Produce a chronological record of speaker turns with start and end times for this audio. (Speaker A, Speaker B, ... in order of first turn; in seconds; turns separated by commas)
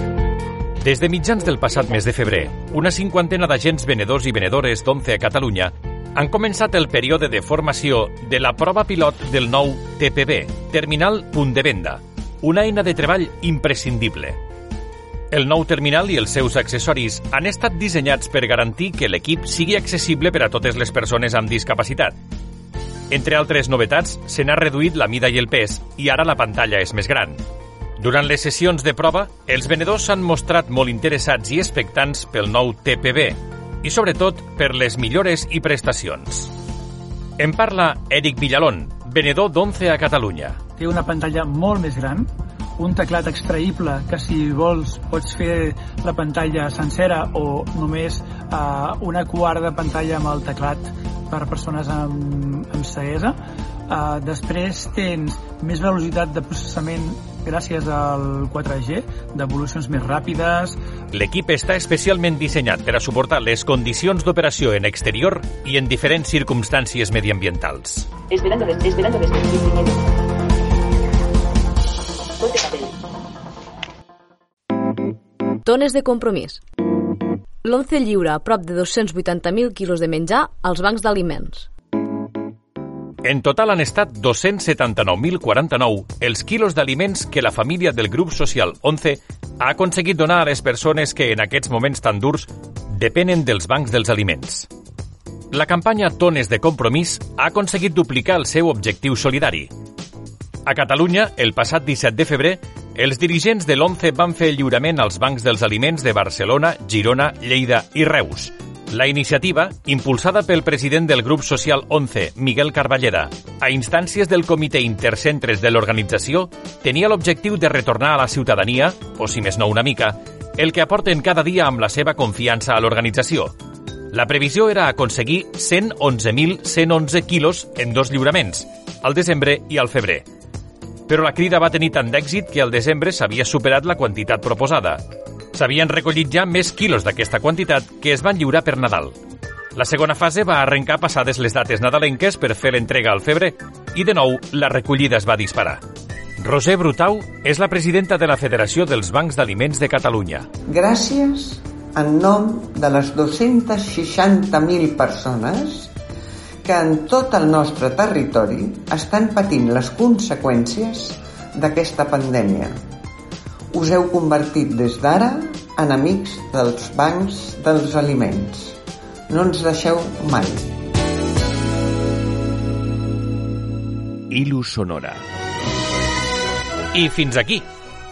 Speaker A: 0.8-14.4, Speaker A: 15.3-22.1, Speaker A: 23.1-27.4, Speaker A: 28.0-36.5, Speaker A: 37.4-40.6, Speaker B: 40.8-53.4, Speaker B: 53.9-60.8, Speaker A: 61.1-68.1, Speaker C: 68.3-70.0, Speaker C: 72.4-72.9, Speaker D: 75.6-76.6, Speaker D: 77.6-81.7, Speaker A: 83.2-94.7, Speaker A: 95.5-99.7, Speaker A: 100.6-123.5, Speaker A: 124.1-130.2, Speaker A: 131.1-139.2, Speaker A: 139.7-145.8, Speaker A: 146.4-150.5, Speaker E: 150.8-155.8, Speaker E: 156.7-161.1, Speaker E: 161.6-162.7, Speaker E: 163.8-168.7, Speaker E: 169.4-170.6, Speaker A: 174.3-175.2, Speaker A: 176.9-177.7